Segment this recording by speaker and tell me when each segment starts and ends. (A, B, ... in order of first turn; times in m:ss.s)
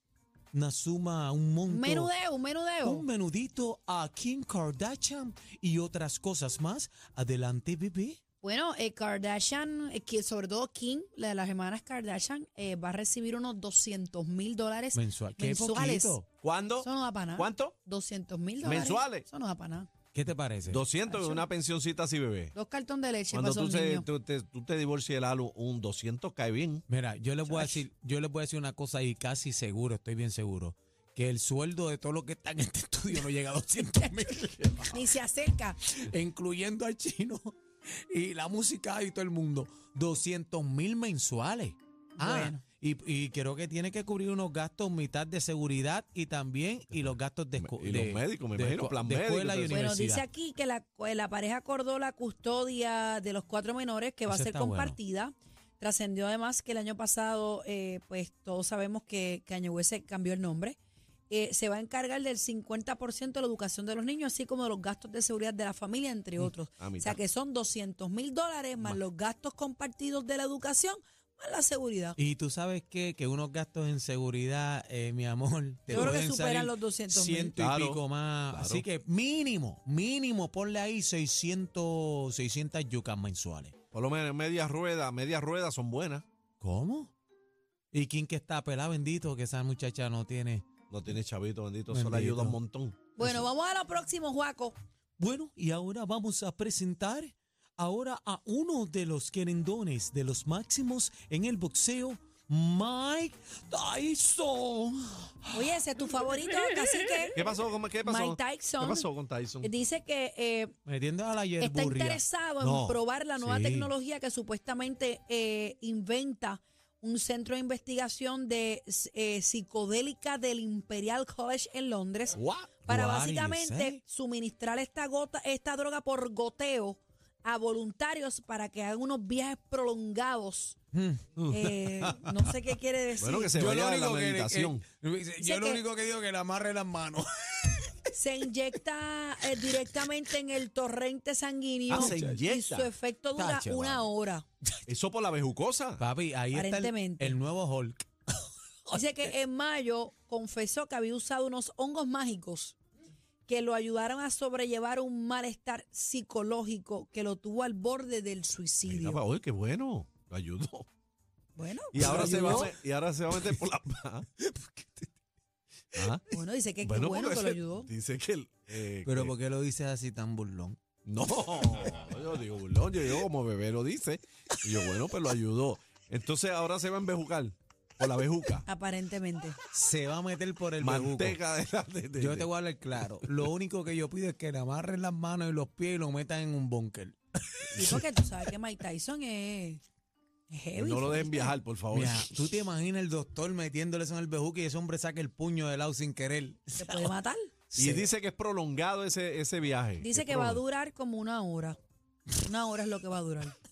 0:00.5-0:02.1 A
0:01.7-0:03.1 B
0:02.8-0:08.2 A
0:08.4-0:16.2 B
0:14.9-0:16.3 A
0:16.3-0:17.8 C
0:16.8-0:19.9 B
0:18.6-0:19.2 C
0:20.1-0:20.8 A
0:20.7-0:22.5 C
0:21.0-0:21.5 B
0:22.5-0:24.1 B
0:23.3-0:26.8 C
0:26.9-0:34.9 A
0:27.4-0:27.8 B
0:34.9-0:35.8 B
0:35.9-0:50.2 A
0:42.2-0:42.6 B
0:47.6-0:49.9 C
0:49.7-1:00.8 B
0:54.3-0:55.0 A
1:01.3-1:12.2 B
1:06.8-1:07.2 C
1:12.2-1:23.7 A
1:15.9-1:17.6 B
1:15.9-1:16.2 C
1:17.6-1:18.8 C
1:23.9-1:26.2 C
1:26.6-1:27.1 A
1:27.9-1:30.6 A
1:30.9-1:33.3 C
1:31.9-1:32.6 A
1:33.2-1:34.8 B
1:35.2-1:45.6 A
1:45.5-1:47.4 B
1:47.3-1:49.7 C
1:48.0-1:49.1 B
1:49.6-1:50.7 B
1:50.8-1:52.2 A
1:51.6-2:10.8 B
1:52.6-1:53.0 C
1:53.4-1:53.9 A
2:02.4-2:02.8 C
2:02.8-2:04.0 A
2:10.9-2:12.6 A
2:11.5-2:13.6 B
2:13.2-2:14.8 C
2:13.5-2:17.9 A
2:15.4-2:15.8 B
2:18.1-2:24.5 B
2:21.9-2:22.4 A
2:21.9-2:22.9 C
2:23.4-2:24.1 A
2:24.9-2:26.0 C
2:26.0-2:29.0 A
2:26.5-2:27.4 B
2:28.9-2:32.8 B
2:33.5-2:39.2 B
2:38.9-2:40.9 C
2:41.6-2:42.7 B
2:41.9-2:44.3 C
2:42.0-2:42.8 A
2:44.4-2:45.1 A
2:46.0-2:46.2 C
2:46.3-2:47.9 B
2:46.8-2:49.3 C
2:49.0-2:50.8 A
2:51.1-2:58.7 C
2:58.7-2:59.6 B
2:59.7-3:01.4 A
3:00.8-3:02.5 C
3:02.2-3:08.0 A
3:07.7-3:09.8 B
3:10.5-3:11.6 B
3:10.8-3:12.3 C
3:11.9-3:17.1 A
3:16.8-3:17.5 B
3:17.8-3:18.1 A
3:17.8-3:20.6 C
3:20.0-3:21.8 B
3:22.4-3:23.6 B